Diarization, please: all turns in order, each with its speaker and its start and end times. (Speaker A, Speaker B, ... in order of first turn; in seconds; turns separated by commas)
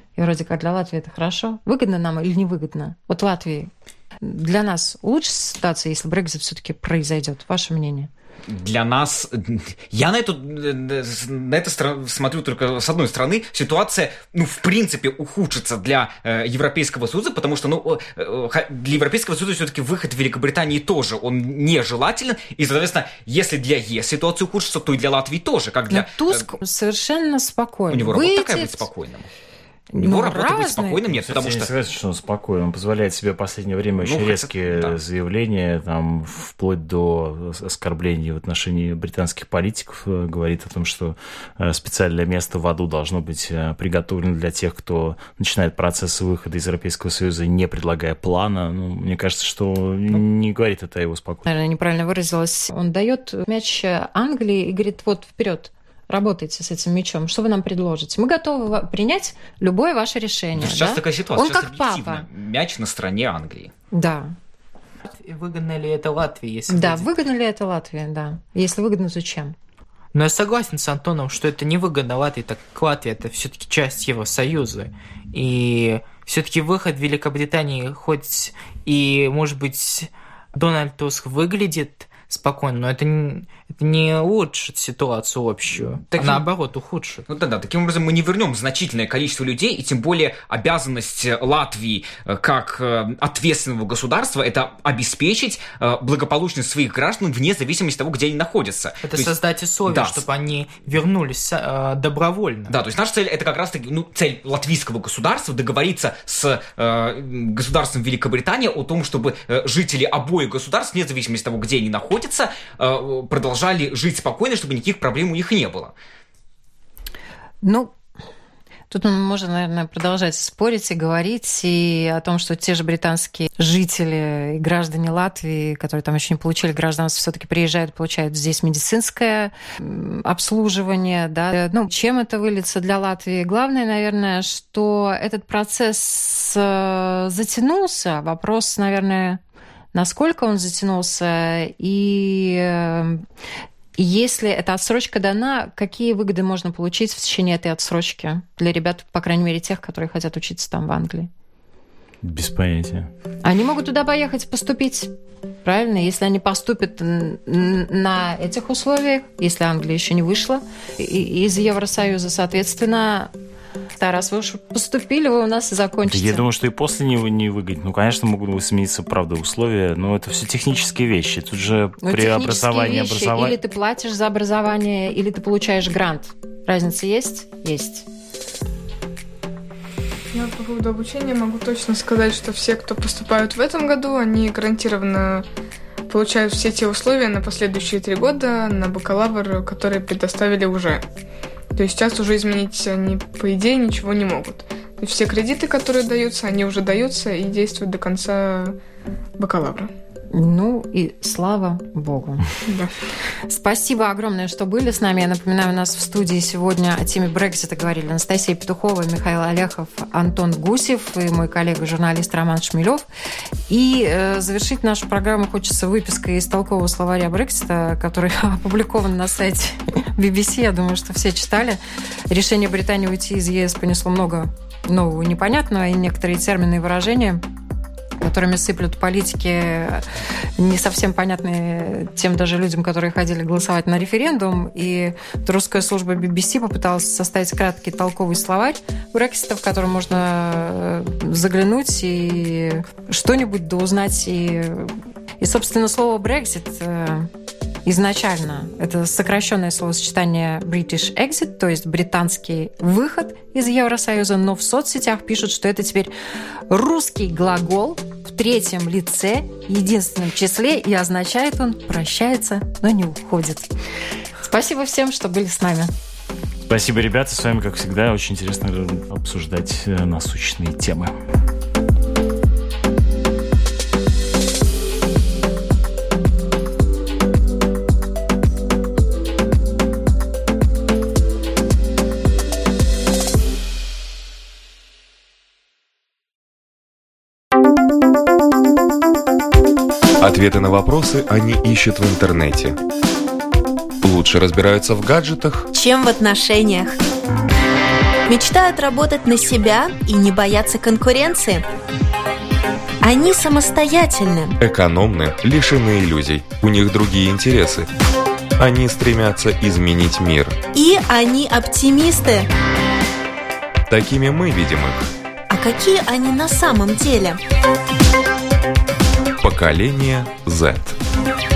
Speaker A: 0.2-3.7, Speaker A: 4.2-8.1, Speaker B: 8.5-26.5, Speaker A: 25.9-28.9, Speaker B: 27.9-29.3, Speaker A: 29.9-31.0, Speaker B: 30.0-31.7, Speaker C: 31.1-51.5, Speaker B: 34.0-35.0, Speaker A: 51.5-62.3, Speaker B: 60.6-63.7, Speaker A: 63.9-64.3, Speaker D: 65.0-67.1, Speaker A: 66.7-69.5, Speaker D: 70.1-87.2, Speaker B: 87.3-99.3, Speaker D: 99.0-102.8, Speaker B: 99.9-100.2, Speaker B: 102.7-115.9, Speaker A: 117.6-117.9, Speaker A: 118.9-139.4, Speaker A: 139.9-143.2, Speaker A: 144.0-151.3, Speaker C: 152.2-153.1, Speaker A: 153.4-155.1, Speaker A: 155.7-163.3, Speaker A: 164.0-166.5, Speaker C: 166.1-173.6, Speaker A: 172.0-178.1, Speaker E: 180.3-185.5, Speaker E: 186.1-191.1, Speaker E: 191.8-198.8, Speaker E: 199.4-199.9, Speaker A: 200.3-202.5, Speaker E: 202.7-202.9, Speaker A: 203.5-213.1, Speaker A: 213.7-227.4, Speaker A: 228.2-230.1, Speaker A: 230.6-247.3, Speaker A: 247.8-256.1, Speaker A: 256.7-263.7, Speaker A: 264.5-265.9, Speaker C: 266.7-271.1, Speaker F: 290.2-292.8, Speaker F: 294.0-295.7, Speaker G: 295.7-297.0, Speaker G: 298.3-301.6, Speaker G: 303.0-304.6, Speaker F: 304.6-307.9, Speaker F: 308.6-310.6, Speaker G: 310.7-312.5, Speaker F: 313.9-315.1, Speaker G: 315.5-317.4, Speaker F: 319.4-321.0